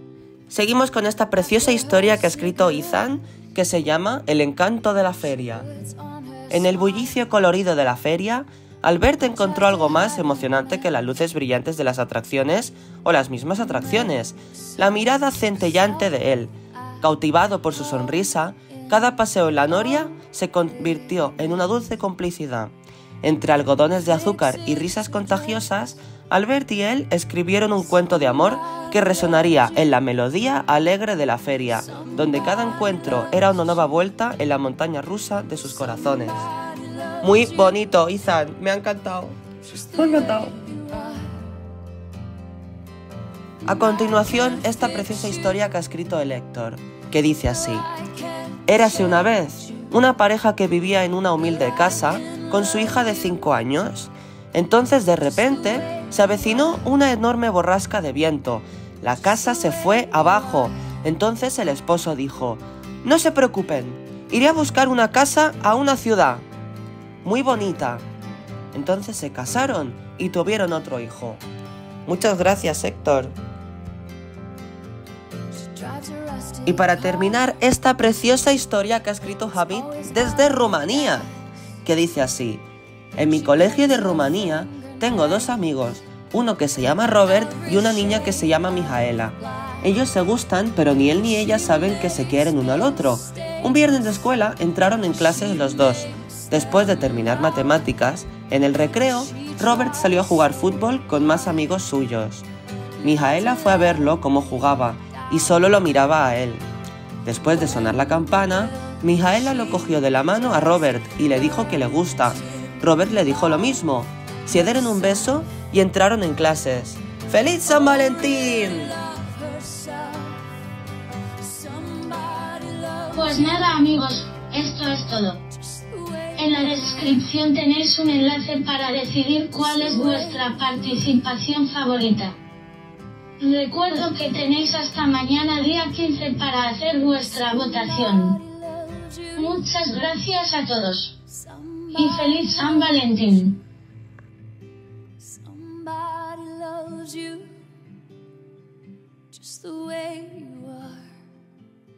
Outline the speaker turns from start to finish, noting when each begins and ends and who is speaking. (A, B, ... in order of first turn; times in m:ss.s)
0:00.5-0:05.7 A
0:01.6-0:02.8 B
0:05.7-0:06.6 B
0:06.5-0:36.5 A
0:09.6-0:10.2 B
0:31.9-0:33.4 B
0:36.4-0:37.4 B
0:37.2-0:40.6 A
0:39.9-0:41.3 B
0:43.6-0:47.9 A
0:44.6-0:45.3 B
0:48.0-0:48.7 B
0:48.7-1:06.5 A
1:07.2-1:08.0 A
1:08.7-1:11.4 A
1:12.1-1:13.4 A
1:15.8-1:17.0 B
1:16.7-1:21.3 A
1:19.7-1:21.2 B
1:21.8-1:22.6 A
1:23.2-1:42.5 A
1:23.6-1:25.1 B
1:27.5-1:28.7 B
1:31.6-1:33.7 B
1:35.4-1:36.5 B
1:39.4-1:40.2 B
1:43.0-1:46.7 A
1:47.2-1:59.0 A
1:58.0-2:00.4 B
2:01.4-2:03.2 B
2:03.1-2:05.4 C
2:05.7-2:06.4 B
2:06.4-2:12.4 C
2:09.9-2:10.2 B
2:13.4-2:18.4 C
2:18.2-2:19.4 B
2:19.4-2:21.2 C
2:21.4-2:22.5 B
2:21.9-2:23.6 C
2:25.2-2:27.6 B
2:29.3-2:31.2 B